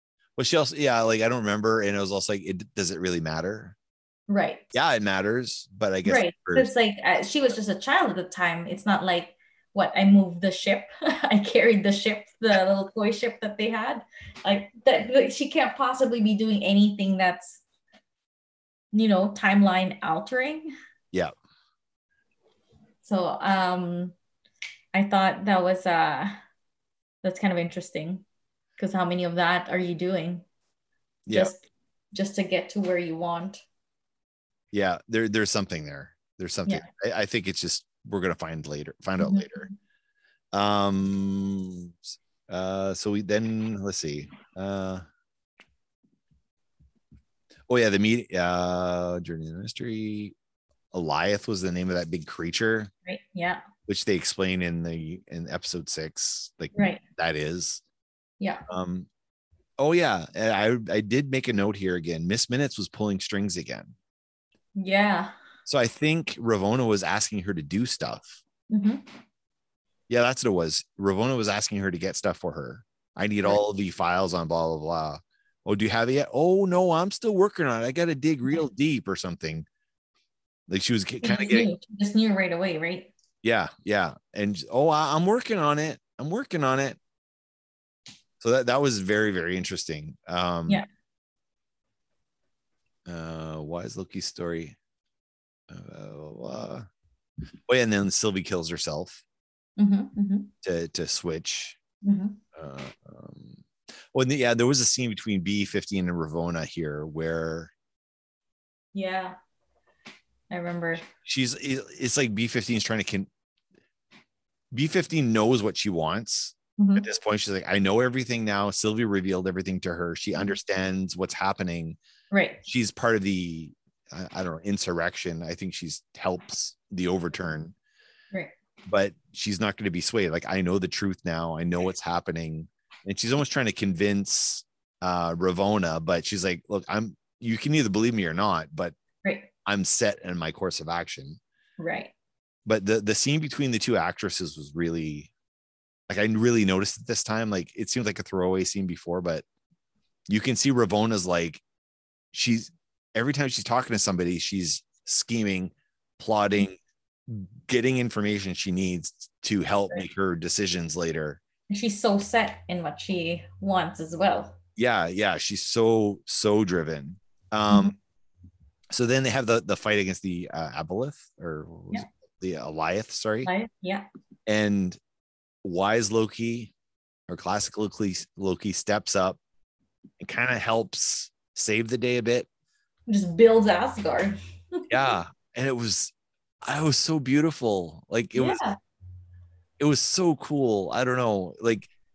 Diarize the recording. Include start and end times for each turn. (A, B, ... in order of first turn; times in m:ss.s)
0:00.4-0:03.8 A
0:04.3-0:04.7 B
0:04.7-0:06.7 A
0:06.0-0:17.6 B
0:18.9-0:20.7 B
0:23.0-0:24.1 B
0:24.9-0:26.4 B
0:27.2-0:28.2 B
0:28.8-0:30.4 B
0:31.2-0:31.5 A
0:31.3-0:33.6 B
0:34.7-0:39.7 A
0:39.2-0:39.7 B
0:40.5-0:45.0 A
0:47.7-0:50.3 A
0:50.9-0:52.9 A
0:53.0-0:53.6 B
0:53.9-0:57.8 A
0:56.7-0:57.0 B
0:58.7-0:59.1 A
0:59.8-1:03.9 A
1:04.8-1:05.3 B
1:05.6-1:08.4 A
1:08.7-1:09.0 B
1:10.1-1:19.6 A
1:20.7-1:21.7 A
1:21.2-1:23.1 B
1:23.4-1:27.0 A
1:28.4-1:30.8 A
1:33.0-1:34.8 A
1:35.7-1:36.9 A
1:37.7-1:39.2 A
1:39.8-1:40.5 B
1:40.6-1:41.8 A
1:42.0-1:42.4 B
1:42.5-1:47.7 A
1:48.9-1:49.4 B
1:50.5-1:51.0 B
1:51.0-1:53.3 A
1:54.7-2:02.0 A
1:56.8-1:57.0 B
2:02.3-2:02.6 B
2:02.6-2:07.7 A
2:08.9-2:18.9 A
2:19.6-2:21.4 A
2:21.8-2:22.1 B
2:22.6-2:25.3 A
2:26.1-2:29.4 A
2:30.3-2:31.6 A
2:32.3-2:41.4 A
2:41.7-2:44.6 B
2:44.8-2:47.9 A
2:48.9-2:53.5 A
2:53.4-2:54.0 B
2:54.5-2:55.0 A
2:55.6-2:56.7 A
2:57.3-2:59.4 A
3:00.2-3:02.5 A
3:03.1-3:05.1 B
3:04.9-3:08.6 A
3:08.4-3:08.8 B
3:09.8-3:11.9 A